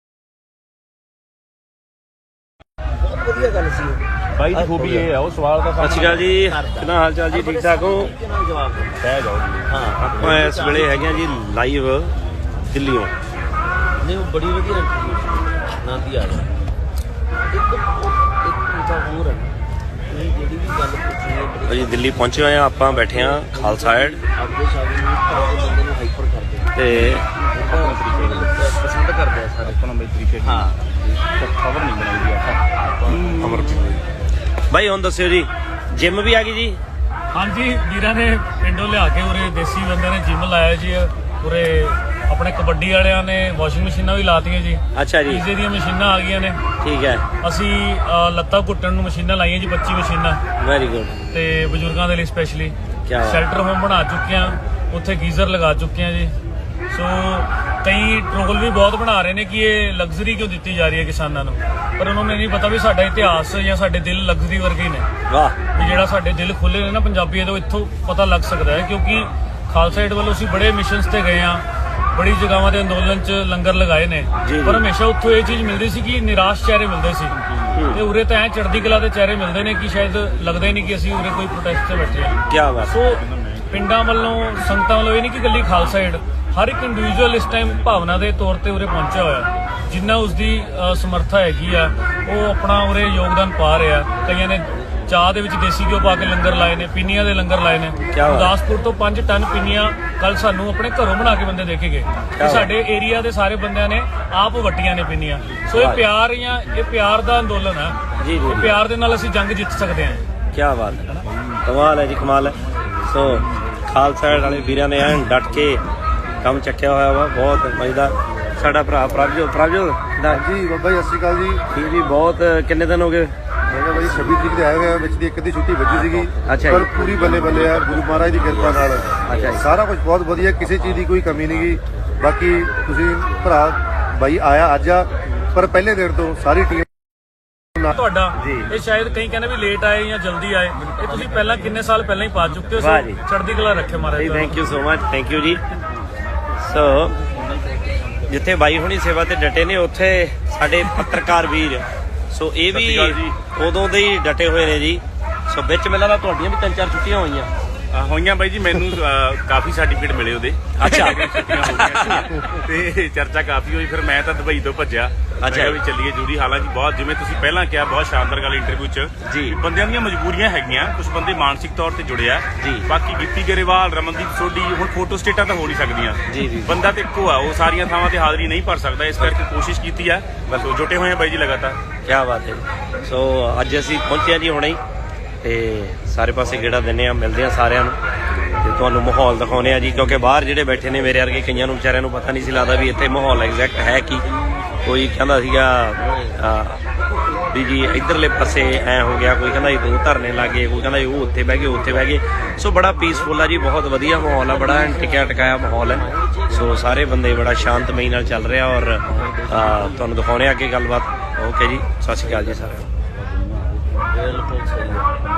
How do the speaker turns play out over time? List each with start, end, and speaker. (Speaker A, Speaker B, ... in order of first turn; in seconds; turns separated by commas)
Speaker A: 3.0-5.0, Speaker B: 4.4-6.1, Speaker C: 5.8-8.1, Speaker A: 6.2-9.1, Speaker B: 9.0-10.4, Speaker A: 9.7-11.3, Speaker C: 10.0-13.1, Speaker A: 14.0-16.5, Speaker A: 17.5-19.6, Speaker A: 20.1-29.8, Speaker C: 21.7-24.2, Speaker C: 26.8-27.3, Speaker B: 27.0-28.7, Speaker B: 29.6-34.0, Speaker A: 30.4-30.8, Speaker C: 33.1-34.0, Speaker C: 34.7-36.8, Speaker D: 37.3-46.6, Speaker C: 44.9-45.4, Speaker C: 46.8-47.2, Speaker D: 47.4-50.4, Speaker C: 50.6-51.1, Speaker D: 51.3-56.3, Speaker C: 53.0-53.4, Speaker D: 56.9-65.1, Speaker C: 65.3-66.0, Speaker D: 65.8-77.4, Speaker C: 74.4-74.9, Speaker B: 77.5-77.8, Speaker C: 77.7-78.0, Speaker D: 77.9-110.2, Speaker C: 82.5-83.0, Speaker B: 83.2-83.8, Speaker C: 98.1-98.5, Speaker C: 102.3-102.7, Speaker C: 105.7-106.1, Speaker C: 108.2-108.8, Speaker C: 110.5-111.1, Speaker C: 111.7-115.8, Speaker C: 116.4-120.5, Speaker E: 120.3-121.6, Speaker C: 121.7-123.3, Speaker E: 123.7-136.9, Speaker A: 124.0-124.6, Speaker A: 125.9-129.8, Speaker C: 126.5-126.9, Speaker C: 129.3-129.7, Speaker A: 130.8-131.8, Speaker A: 132.6-133.5, Speaker D: 137.9-144.6, Speaker C: 142.8-143.2, Speaker C: 144.2-145.6, Speaker C: 146.6-147.2, Speaker C: 148.3-157.5, Speaker B: 152.7-153.4, Speaker B: 157.9-181.8, Speaker C: 160.8-162.3, Speaker C: 165.4-165.8, Speaker C: 169.2-169.6, Speaker C: 172.6-172.9, Speaker C: 176.3-176.7, Speaker C: 182.1-184.8, Speaker C: 185.4-188.0, Speaker C: 188.6-194.3, Speaker C: 194.8-196.8, Speaker C: 197.5-212.9, Speaker A: 204.0-210.1, Speaker A: 213.9-215.2